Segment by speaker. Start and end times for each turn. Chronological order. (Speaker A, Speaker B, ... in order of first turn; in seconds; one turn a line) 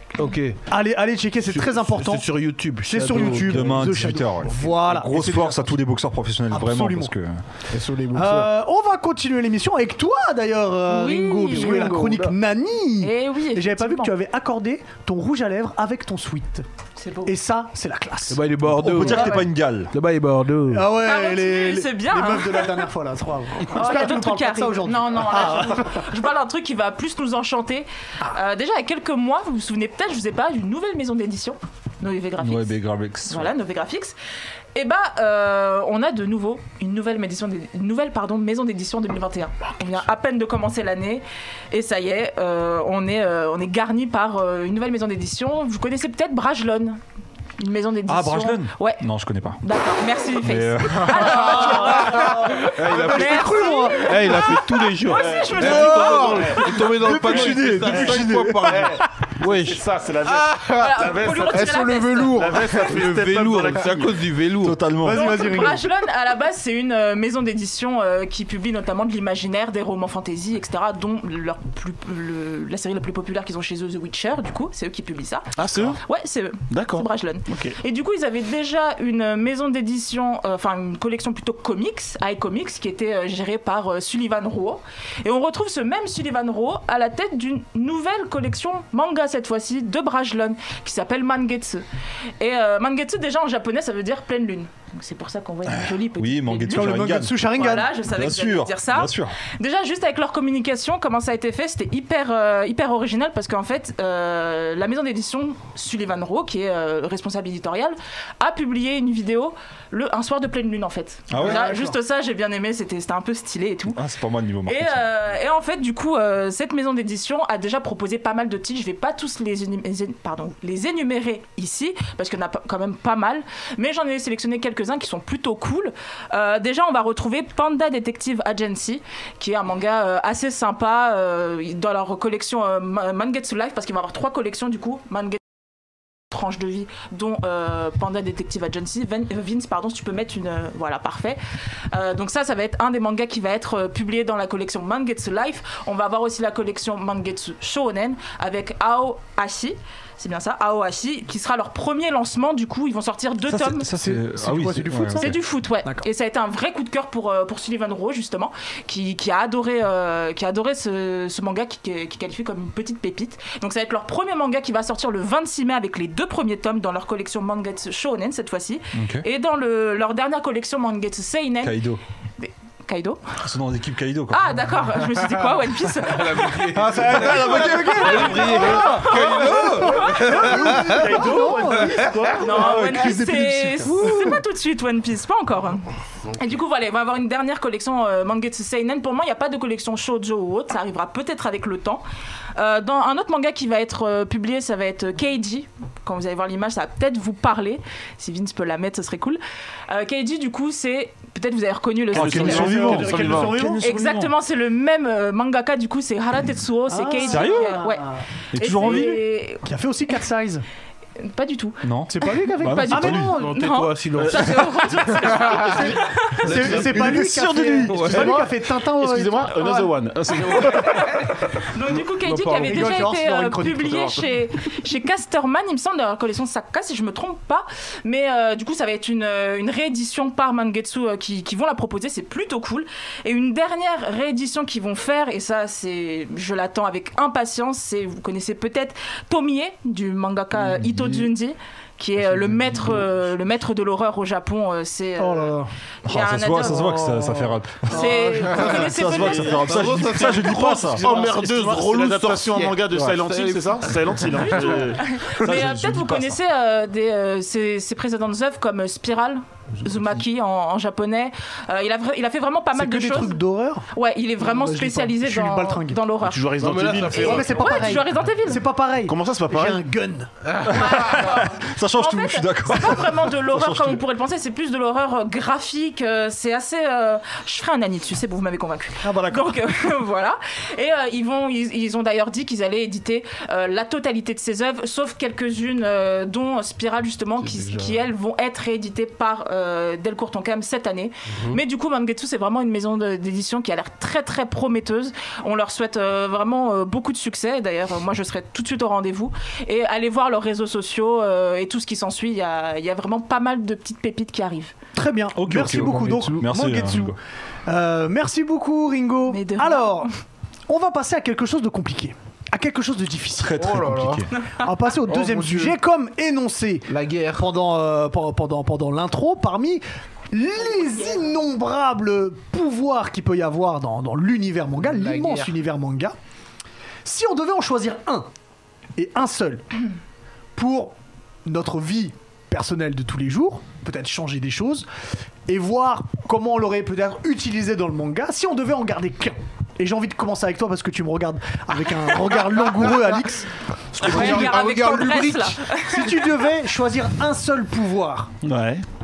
Speaker A: 0.1-0.6
Speaker B: 0.7-2.2
Speaker A: 1.4-4.2
Speaker B: 2.8-5.8
Speaker C: 3.2-7.4
Speaker B: 6.5-7.1
Speaker D: 7.7-8.5
Speaker B: 8.1-16.6
Speaker E: 10.9-12.0
Speaker A: 11.5-12.3
Speaker E: 13.0-14.1
Speaker E: 17.0-17.3
Speaker B: 17.2-19.4
Speaker A: 18.3-20.9
Speaker C: 18.7-19.9
Speaker B: 20.7-26.1
Speaker E: 21.0-22.9
Speaker E: 23.6-32.8
Speaker C: 32.4-33.5
Speaker E: 33.3-34.1
Speaker E: 34.7-47.0
Speaker E: 47.6-49.0
Speaker C: 48.1-49.6
Speaker E: 49.6-56.9
Speaker C: 50.4-52.3
Speaker B: 51.4-54.1
Speaker A: 52.7-60.6
Speaker F: 55.1-64.3
Speaker C: 56.9-58.9
Speaker D: 60.5-62.8
Speaker E: 60.6-62.5
Speaker A: 62.8-64.8
Speaker C: 64.6-65.5
Speaker B: 65.0-65.8
Speaker E: 65.1-91.8
Speaker F: 75.5-76.0
Speaker F: 76.7-77.8
Speaker E: 92.4-114.0
Speaker C: 96.2-97.5
Speaker B: 96.7-97.9
Speaker C: 98.0-99.4
Speaker C: 111.3-111.7
Speaker B: 111.3-112.0
Speaker C: 113.9-115.0
Speaker E: 114.7-135.4
Speaker E: 136.3-141.4
Speaker E: 141.9-153.9
Speaker C: 153.4-155.4
Speaker B: 153.9-156.1
Speaker E: 155.1-171.8
Speaker C: 168.9-169.2
Speaker C: 171.6-172.0
Speaker E: 172.4-173.2
Speaker C: 173.4-174.4
Speaker E: 174.3-176.8
Speaker A: 176.0-181.1
Speaker B: 176.7-181.9
Speaker C: 176.9-178.6
Speaker E: 178.0-180.2
Speaker F: 180.1-182.7
Speaker A: 181.8-182.1
Speaker E: 182.4-192.0
Speaker C: 182.6-184.3
Speaker B: 183.8-184.3
Speaker E: 192.6-203.1
Speaker C: 202.1-204.3
Speaker F: 202.1-203.8
Speaker B: 202.8-203.5
Speaker E: 203.8-209.6
Speaker B: 206.9-208.2
Speaker C: 207.3-207.8
Speaker C: 208.5-209.2
Speaker B: 208.8-210.6
Speaker E: 211.2-216.5
Speaker C: 211.8-213.3
Speaker B: 212.1-213.6
Speaker A: 213.3-217.2
Speaker F: 214.2-216.0
Speaker B: 215.5-219.9
Speaker C: 216.8-218.3
Speaker A: 217.9-218.4
Speaker F: 218.1-221.2
Speaker E: 220.3-247.1
Speaker A: 222.2-223.0
Speaker B: 222.6-224.1
Speaker C: 240.7-241.1
Speaker C: 242.4-242.9
Speaker B: 245.2-245.7
Speaker C: 246.1-251.1
Speaker B: 246.7-249.0
Speaker E: 247.9-249.8
Speaker A: 249.4-254.8
Speaker F: 251.0-255.1
Speaker E: 254.5-263.4
Speaker C: 255.3-256.4
Speaker B: 262.7-263.9
Speaker E: 263.9-266.5
Speaker B: 264.4-266.0
Speaker F: 266.2-267.7
Speaker A: 266.6-268.1
Speaker E: 267.0-268.6
Speaker B: 267.1-270.3
Speaker F: 269.0-269.8
Speaker A: 270.4-270.8
Speaker E: 270.6-304.7
Speaker C: 270.6-274.0
Speaker B: 279.0-279.6
Speaker A: 287.4-288.0
Speaker A: 291.3-291.6
Speaker B: 304.9-307.1
Speaker C: 305.3-307.1
Speaker D: 305.9-306.2
Speaker B: 307.7-310.1
Speaker E: 309.3-310.1
Speaker B: 310.7-313.7
Speaker C: 313.4-314.3
Speaker D: 313.6-314.3
Speaker B: 314.6-326.1
Speaker D: 315.0-315.8
Speaker D: 316.9-317.4
Speaker D: 324.8-325.6
Speaker B: 327.0-328.3
Speaker B: 329.0-329.6
Speaker B: 330.6-330.9
Speaker B: 331.4-334.9
Speaker B: 335.5-343.5
Speaker D: 343.9-345.6
Speaker E: 344.0-346.3
Speaker B: 344.0-344.5
Speaker B: 345.8-348.3
Speaker F: 348.4-348.8